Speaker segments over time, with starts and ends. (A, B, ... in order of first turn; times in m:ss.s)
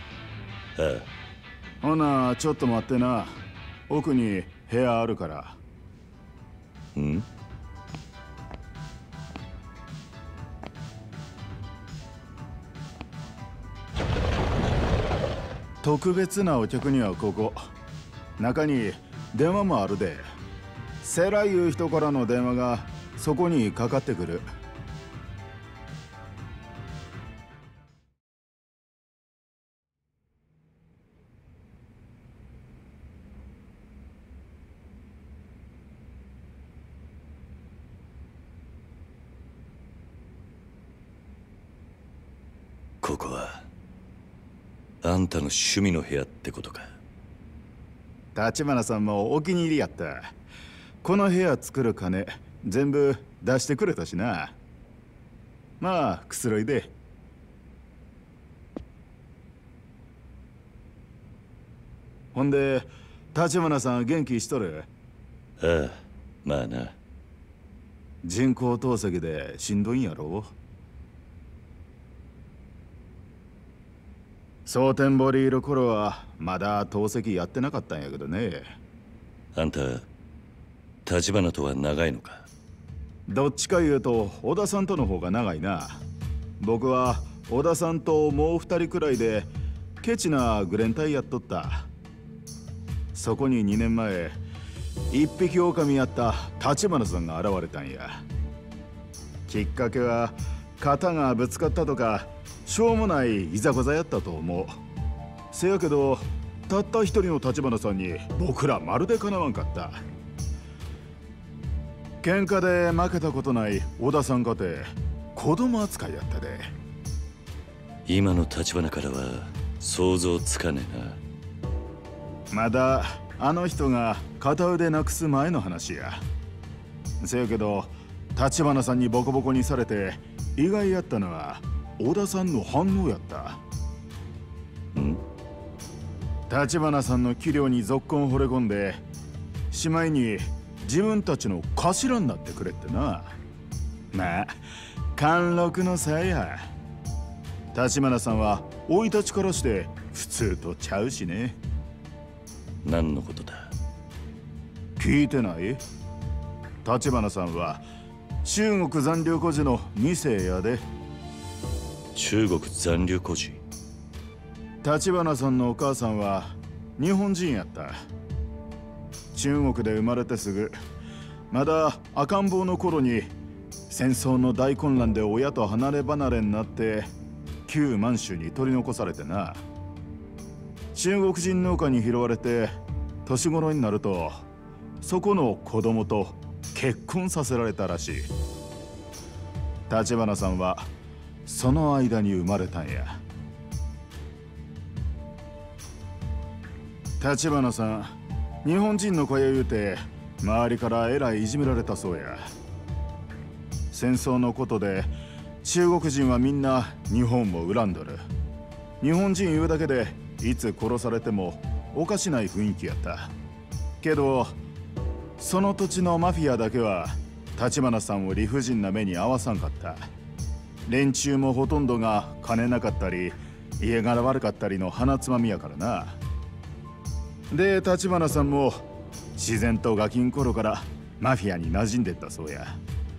0:00.8-0:01.1 A
0:01.8-0:05.6 B
0:06.9-0:07.2 A
0:15.8-0:17.7 B
0:18.4-0:20.2 B
0:21.0-0:24.4 B
0:43.0-0:43.6 A
0:45.0-0:46.9 A
0:48.3-0:50.3 B
0:51.0-0:54.6 B
0:55.8-0:56.9 B
1:02.3-1:04.9 B
1:05.6-1:07.0 A
1:08.2-1:10.5 B
1:14.6-1:18.7 B
1:19.5-1:20.1 A
1:21.0-1:22.5 A
1:23.3-1:26.0 B
1:26.6-1:31.9 B
1:33.1-1:34.4 B
1:35.1-1:38.2 B
1:39.5-1:44.8 B
1:45.5-1:50.0 B
1:52.2-1:56.7 B
1:58.0-2:01.2 A
2:02.5-2:06.2 B
2:07.2-2:13.6 B
2:14.9-2:15.2 A
2:16.5-2:19.0 B
2:19.7-2:23.4 B
2:24.1-2:24.5 B
2:25.1-2:26.7 B
2:27.7-2:31.6 B
2:32.8-2:33.7 A
2:35.0-2:35.8 B
2:36.8-2:37.8 B
2:38.4-2:40.8 B
2:42.1-2:43.6 A
2:44.8-2:48.0 B
2:49.3-2:50.8 B
2:51.5-2:53.3 B
2:53.9-2:57.1 B
2:57.7-2:59.6 B
3:00.9-3:04.5 B
3:05.0-3:08.3 B
3:09.9-3:10.9 B
3:11.4-3:13.2 B
3:17.2-3:22.5 B
3:23.9-3:28.2 B
3:29.0-3:33.3 B
3:34.0-3:34.6 B
3:35.4-3:40.1 B
3:40.9-3:46.2 B
3:47.5-3:52.8 B